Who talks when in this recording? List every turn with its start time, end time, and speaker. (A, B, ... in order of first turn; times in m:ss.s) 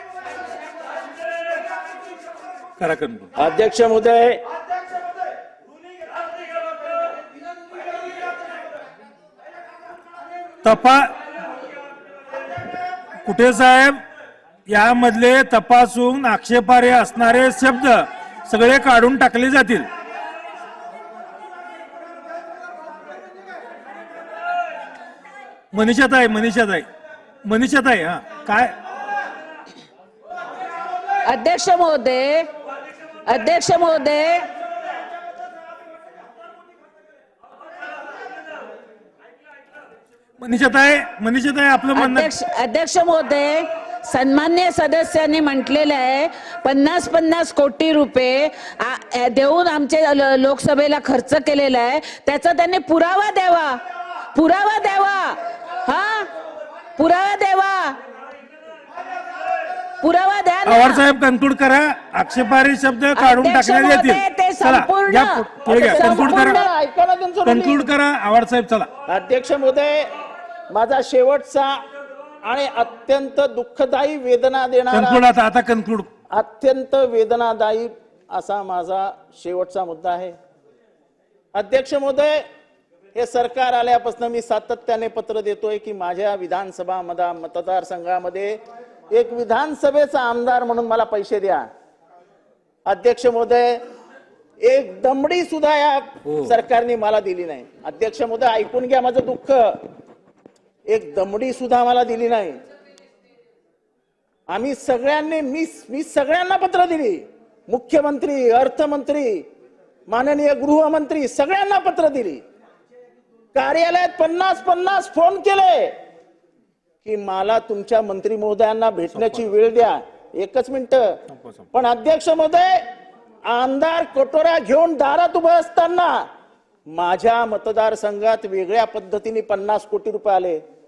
0:02.8-0:03.3 A
0:03.4-0:04.4 B
0:10.6-0:11.0 A
0:13.2-0:14.0 A
0:14.7-0:19.9 A
0:25.7-0:26.9 A
0:27.4-0:28.7 A
0:31.2-0:32.5 C
0:33.2-0:34.5 C
0:40.4-0:42.3 A
0:41.9-0:53.8 C
0:54.3-0:56.3 C
0:57.0-0:58.0 C
1:00.0-1:01.0 C
1:00.6-1:06.6 A
1:03.1-1:06.7 C
1:05.6-1:07.9 B
1:07.4-1:08.9 A
1:09.1-1:10.1 B
1:10.7-1:11.8 B
1:12.4-1:15.2 B
1:14.9-1:16.1 A
1:16.3-1:20.3 B
1:21.5-1:22.4 B
1:23.1-1:28.6 B
1:29.1-1:31.7 B
1:32.8-1:33.8 B
1:34.6-1:39.8 B
1:36.2-1:36.5 A
1:40.9-1:42.6 B
1:44.5-1:49.4 B
1:50.1-1:52.4 B
1:53.5-1:55.9 B
1:57.0-2:01.2 B
1:59.1-1:59.5 A
2:01.3-2:01.6 A
2:01.7-2:02.8 B
2:03.5-2:06.2 B
2:06.9-2:10.6 B